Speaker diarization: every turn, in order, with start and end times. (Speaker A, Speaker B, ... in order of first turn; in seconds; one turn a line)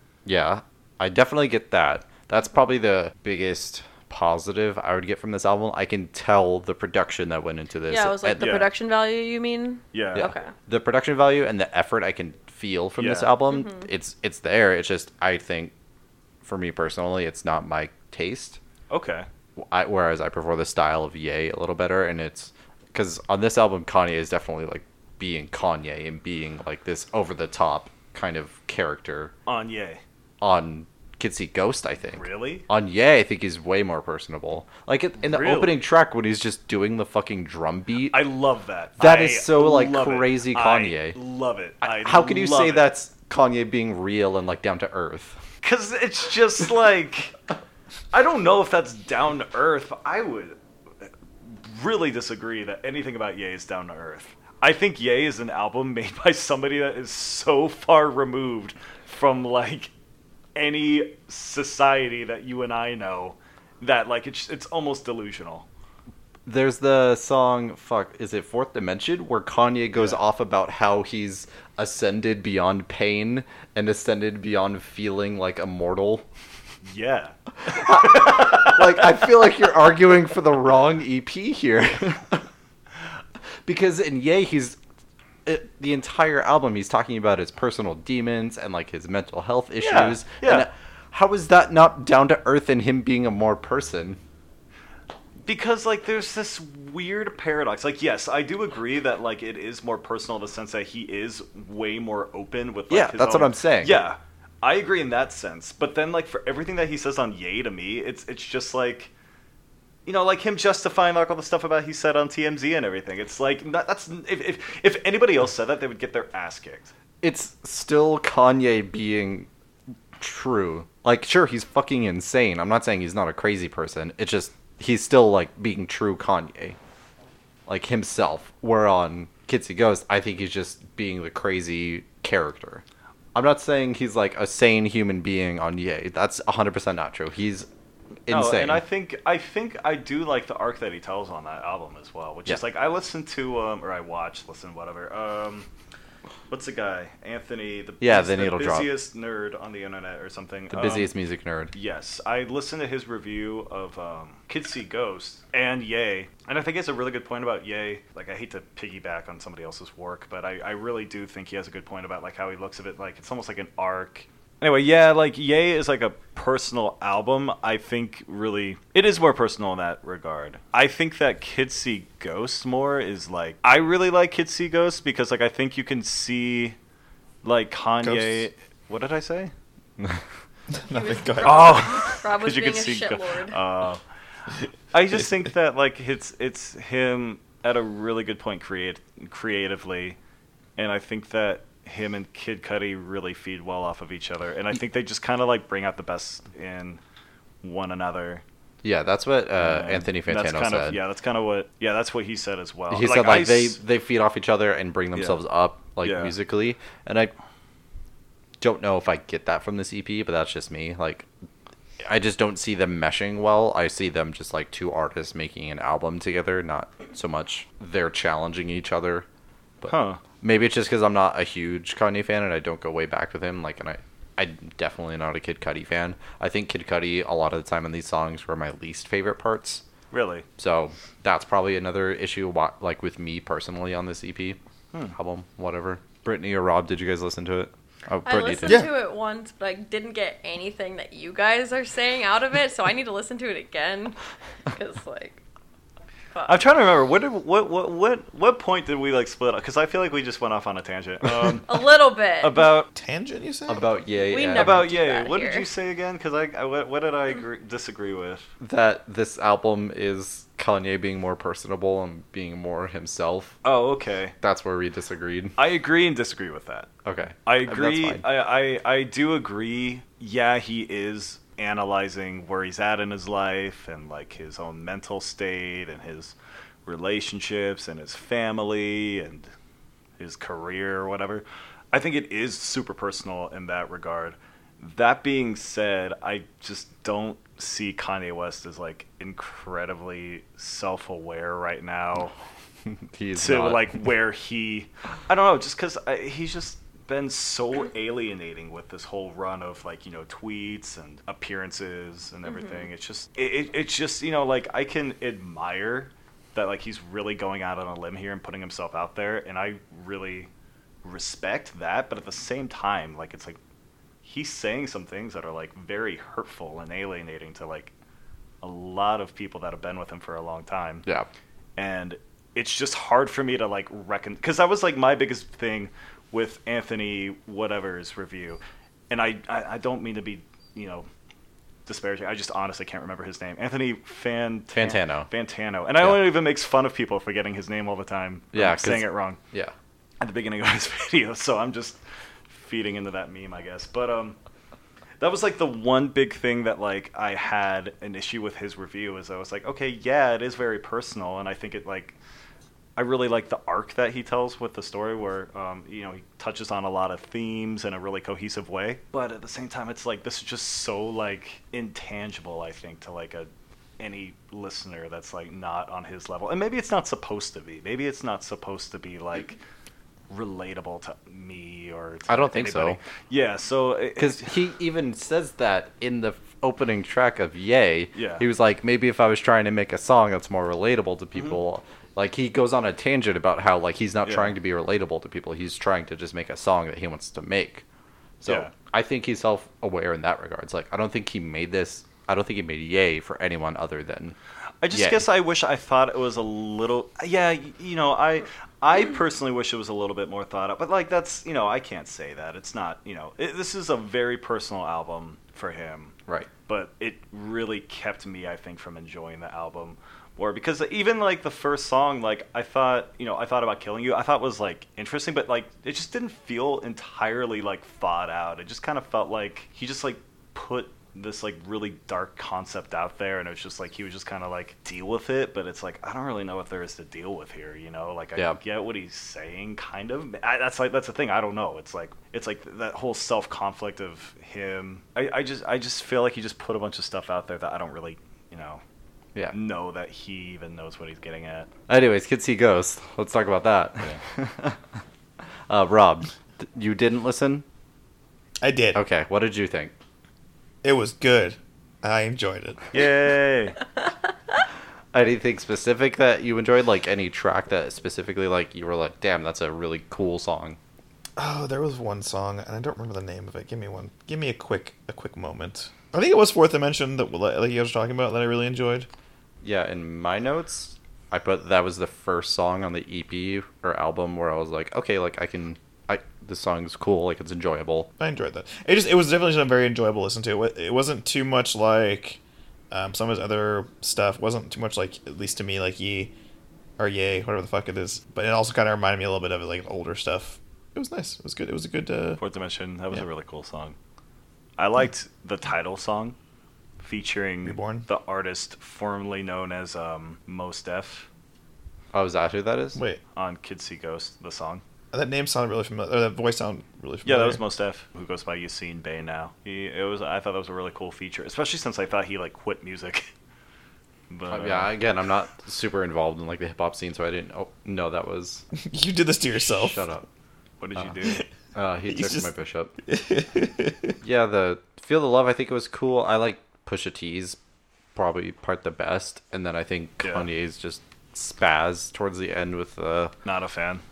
Speaker A: 0.2-8.6
Speaker B: 7.9-10.5
Speaker C: 8.3-8.7
Speaker C: 9.9-10.3
Speaker A: 10.1-15.7
Speaker C: 13.0-13.3
Speaker B: 13.5-13.9
Speaker A: 16.4-18.6
Speaker C: 18.9-19.3
Speaker A: 19.6-29.3
Speaker C: 29.4-30.0
Speaker A: 30.4-38.2
Speaker C: 32.1-32.7
Speaker C: 35.2-35.8
Speaker C: 38.1-42.9
Speaker A: 39.0-41.2
Speaker A: 41.8-45.4
Speaker C: 45.6-47.3
Speaker C: 48.1-59.9
Speaker C: 60.5-65.7
Speaker A: 66.5-76.2
Speaker C: 76.8-79.1
Speaker A: 77.6-82.5
Speaker A: 83.6-84.8
Speaker A: 85.5-94.2
Speaker C: 89.8-90.7
Speaker C: 95.4-109.1
Speaker A: 102.9-104.0
Speaker C: 110.0-116.9
Speaker A: 117.2-119.5
Speaker A: 120.2-126.8
Speaker A: 127.7-132.8
Speaker A: 133.3-137.7
Speaker A: 138.3-138.8
Speaker C: 138.3-145.7
Speaker C: 146.5-151.1
Speaker A: 148.0-148.9
Speaker A: 150.7-151.7
Speaker C: 151.7-176.8
Speaker C: 177.4-179.5
Speaker D: 178.0-178.4
Speaker D: 180.7-182.1
Speaker B: 180.9-183.6
Speaker C: 181.4-184.0
Speaker C: 184.9-190.2
Speaker C: 190.8-197.0
Speaker C: 197.6-198.4
Speaker A: 198.8-201.0
Speaker C: 199.6-203.8
Speaker A: 202.9-207.3
Speaker C: 205.1-205.4
Speaker C: 206.0-206.3
Speaker A: 208.6-211.3
Speaker A: 212.0-219.2
Speaker A: 219.8-229.8
Speaker C: 219.8-220.2
Speaker C: 230.1-230.4
Speaker A: 230.6-234.6
Speaker A: 235.1-238.8
Speaker B: 238.2-244.2
Speaker D: 238.7-238.9
Speaker B: 244.7-245.4
Speaker C: 246.4-252.9
Speaker B: 251.6-252.7
Speaker D: 252.9-253.9
Speaker A: 253.7-254.8
Speaker B: 254.2-255.7
Speaker C: 254.5-258.5
Speaker A: 258.6-263.6
Speaker C: 263.6-264.3
Speaker A: 264.4-265.6
Speaker C: 265.6-266.9
Speaker A: 267.0-268.2
Speaker C: 267.4-276.3
Speaker C: 276.9-279.5
Speaker C: 280.2-292.3
Speaker A: 292.9-293.9
Speaker C: 293.4-310.5
Speaker B: 302.5-302.8
Speaker C: 311.0-313.6
Speaker C: 314.2-317.9
Speaker C: 318.6-321.0
Speaker C: 321.8-331.1
Speaker C: 331.9-339.4
Speaker A: 334.7-335.3
Speaker A: 338.5-339.7
Speaker C: 340.2-344.4
Speaker C: 345.2-352.1
Speaker C: 352.9-369.6
Speaker C: 370.3-374.5
Speaker A: 372.3-373.0
Speaker A: 374.2-387.8
Speaker C: 378.1-378.4
Speaker C: 384.2-384.5
Speaker A: 388.4-394.4
Speaker C: 388.4-388.7
Speaker C: 394.8-406.1
Speaker A: 394.9-395.2
Speaker C: 406.7-438.8
Speaker C: 439.5-441.7
Speaker A: 441.9-444.8
Speaker A: 445.7-447.6
Speaker D: 448.6-449.0
Speaker A: 448.9-449.9
Speaker D: 450.8-452.9
Speaker C: 452.9-453.8
Speaker A: 455.1-460.8
Speaker D: 461.4-469.1
Speaker A: 469.6-478.1
Speaker D: 478.2-482.4
Speaker D: 482.9-486.3
Speaker D: 487.0-492.4
Speaker C: 492.4-493.9
Speaker C: 494.8-496.4
Speaker C: 497.0-501.3
Speaker D: 497.6-498.1
Speaker A: 502.1-503.0
Speaker D: 502.9-503.2
Speaker C: 503.3-504.8
Speaker D: 505.1-507.6
Speaker C: 507.2-513.3
Speaker C: 514.3-514.9
Speaker A: 514.5-518.6
Speaker D: 518.8-520.0
Speaker A: 519.6-520.2
Speaker C: 520.8-521.5
Speaker A: 521.7-522.9
Speaker D: 522.1-522.5
Speaker D: 523.0-524.1
Speaker A: 524.2-527.6
Speaker A: 528.1-533.3
Speaker C: 530.2-530.5
Speaker C: 533.4-534.0